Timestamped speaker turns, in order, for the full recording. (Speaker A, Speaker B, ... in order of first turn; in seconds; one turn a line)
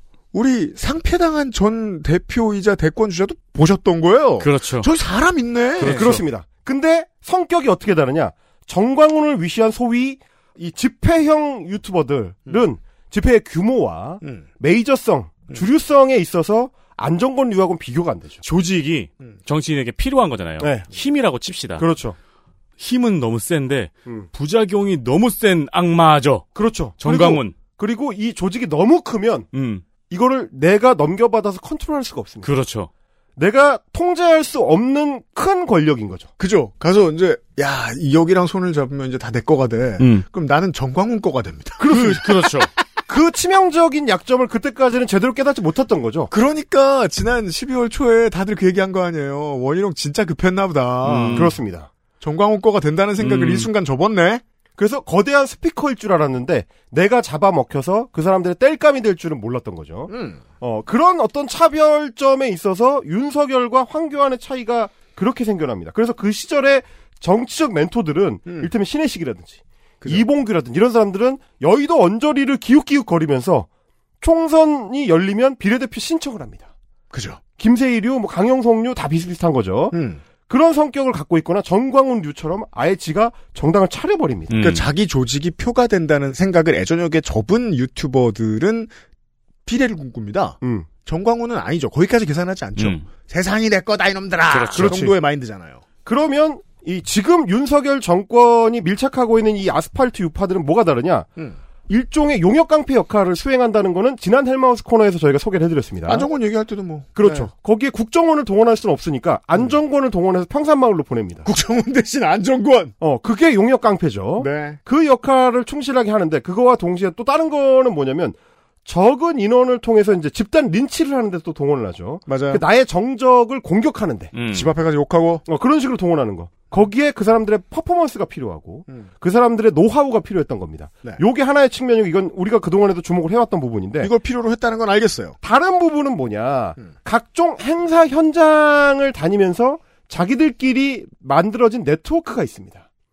Speaker A: 0.3-6.2
Speaker B: 4.4-4.9
Speaker B: 5.8-6.2
Speaker C: 5.8-18.4
Speaker B: 18.4-21.9
Speaker C: 20.6-20.9
Speaker C: 21.8-22.1
Speaker B: 22.8-27.5
Speaker C: 26.5-29.5
Speaker B: 29.5-29.8
Speaker C: 30.1-32.5
Speaker B: 32.4-32.9
Speaker C: 33.4-36.3
Speaker A: 36.4-42.5
Speaker B: 40.0-40.2
Speaker C: 41.8-42.2
Speaker B: 41.9-42.7
Speaker C: 43.1-46.3
Speaker A: 46.3-51.5
Speaker B: 51.0-51.5
Speaker C: 51.3-51.9
Speaker A: 52.2-54.4
Speaker B: 53.2-53.7
Speaker C: 54.8-73.7
Speaker A: 60.1-60.4
Speaker C: 74.2-76.7
Speaker A: 77.1-77.4
Speaker C: 77.6-80.0
Speaker A: 79.9-80.2
Speaker C: 80.5-84.5
Speaker B: 84.5-84.8
Speaker A: 84.5-88.9
Speaker A: 89.7-95.8
Speaker C: 90.6-90.9
Speaker B: 92.8-93.0
Speaker B: 94.5-95.1
Speaker C: 94.7-95.1
Speaker C: 96.0-101.3
Speaker C: 101.9-106.3
Speaker A: 106.1-107.5
Speaker C: 107.2-111.5
Speaker A: 111.4-112.9
Speaker C: 113.0-124.3
Speaker A: 114.4-114.8
Speaker A: 122.3-122.6
Speaker B: 124.3-124.7
Speaker A: 124.5-125.4
Speaker C: 125.5-134.1
Speaker A: 134.0-135.3
Speaker C: 135.4-142.8